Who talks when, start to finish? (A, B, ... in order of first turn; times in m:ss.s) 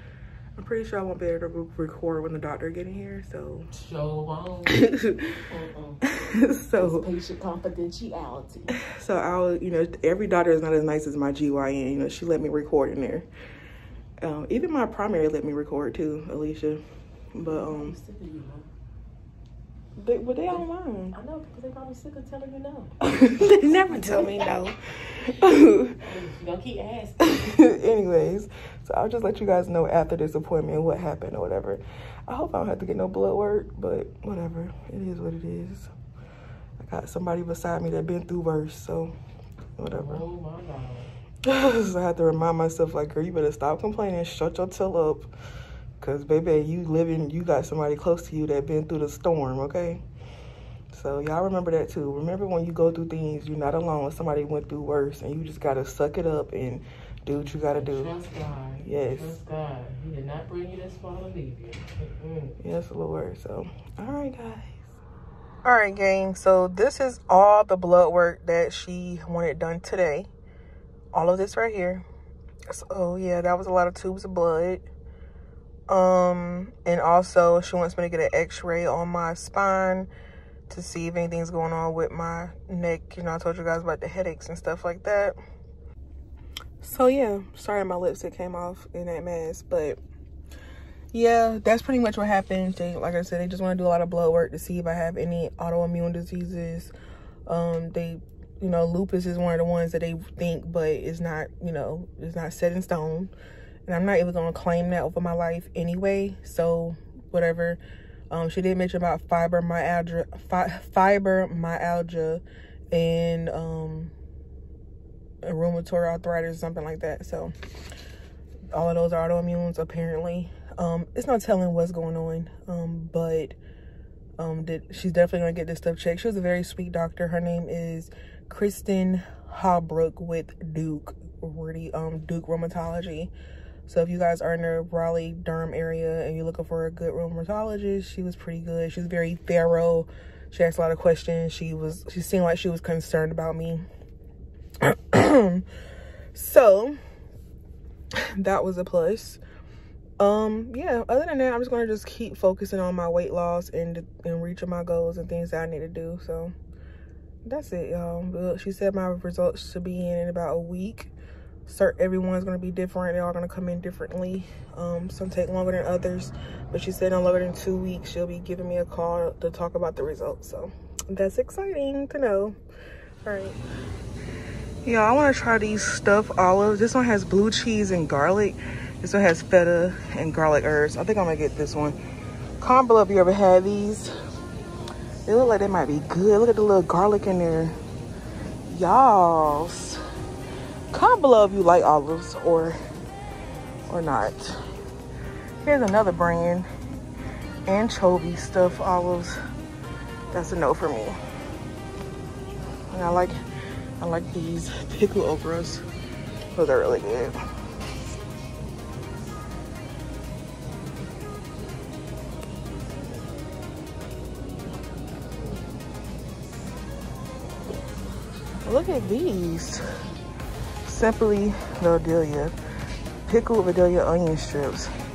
0:00.6-0:03.7 A
0:03.7-0:06.0 B
0:04.7-0:05.4 A
0:06.0-0:07.1 A
0:06.8-0:08.8 B
0:08.7-0:13.3 A
0:14.2-0:16.8 A
0:17.3-0:18.0 A
0:17.4-0:18.7 B
0:20.0-0:21.2 A
0:20.5-0:23.1 B
0:23.0-0:26.0 A
0:23.8-0:24.7 B
0:25.4-0:27.6 B
0:27.2-0:35.9 A
0:36.8-0:39.2 A
0:39.8-0:40.2 A
0:39.9-0:41.1 B
0:41.4-0:45.3 A
0:46.0-0:50.0 A
0:50.9-0:58.1 A
0:57.5-1:02.6 B
0:58.8-0:59.4 A
1:02.6-1:04.9 A
1:05.6-1:10.3 A
1:11.1-1:12.0 A
1:12.7-1:14.8 A
1:15.9-1:20.1 A
1:20.7-1:25.4 A
1:26.8-1:30.0 A
1:31.1-1:36.9 A
1:37.4-1:43.3 A
1:43.8-1:47.8 A
1:48.3-1:54.1 A
1:55.4-1:57.5 A
1:58.7-2:03.6 A
2:04.4-2:13.3 A
2:13.8-2:23.8 A
2:24.8-2:25.6 A
2:26.3-2:27.0 A
2:28.3-2:29.4 A
2:30.2-2:36.5 A
2:37.4-2:41.1 A
2:41.6-2:52.6 A
2:53.2-2:53.6 A
2:54.8-3:02.0 A
3:02.6-3:04.1 A
3:05.2-3:07.8 A
3:08.7-3:10.0 A
3:10.9-3:12.8 A
3:13.9-3:14.6 A
3:15.6-3:16.7 A
3:17.6-3:19.4 A
3:20.3-3:21.2 A
3:22.9-3:23.3 A
3:24.0-3:25.8 A
3:26.5-3:27.4 A
3:38.6-3:39.8 A
3:40.8-3:42.5 A
3:43.2-3:44.9 A